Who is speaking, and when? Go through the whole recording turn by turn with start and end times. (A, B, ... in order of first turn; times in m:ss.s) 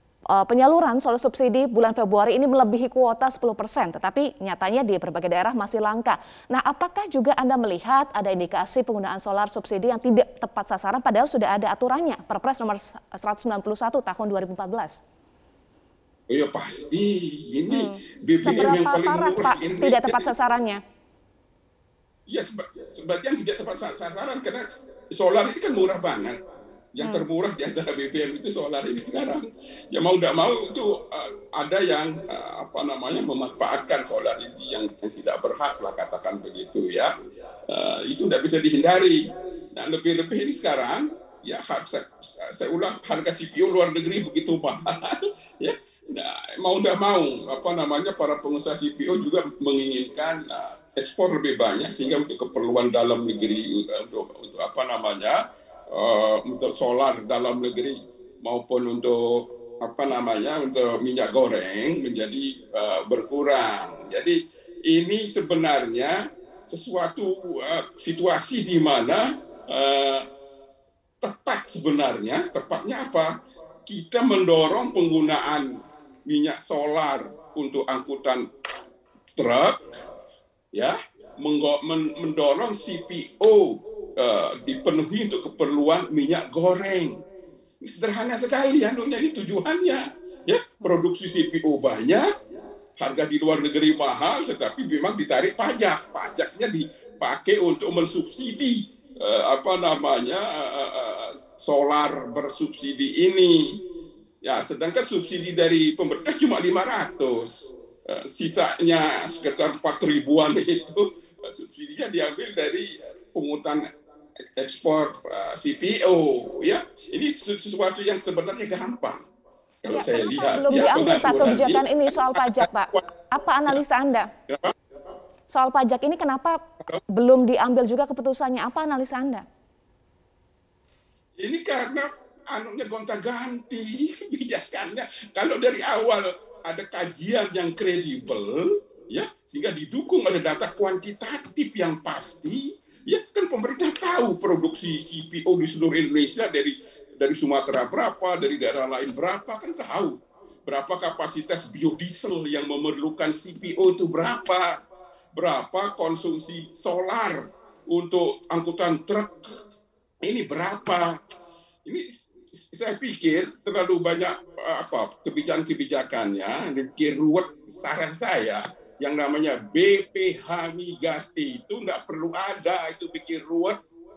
0:00.3-0:15.0 A
0:16.3-0:20.3 B
0:17.7-0:20.8 A
0:22.3-0:26.4 B
0:26.9-0:37.1 B
0:27.0-0:27.2 A
0:37.7-0:55.4 B
0:55.9-1:10.2 B
1:11.2-1:13.3 B
1:13.9-1:15.7 B
1:16.2-1:18.5 B
1:19.4-1:19.8 B
1:20.7-1:27.2 B
1:27.8-1:32.3 B
1:33.0-1:43.8 B
1:44.4-1:53.8 B
1:54.6-1:59.2 B
1:59.8-2:02.6 B
1:59.8-2:04.3 A
2:05.5-2:06.6 A
2:07.1-2:09.4 A
2:11.4-2:34.8 B
2:35.3-2:39.5 B
2:40.2-2:41.2 B
2:41.8-2:53.8 B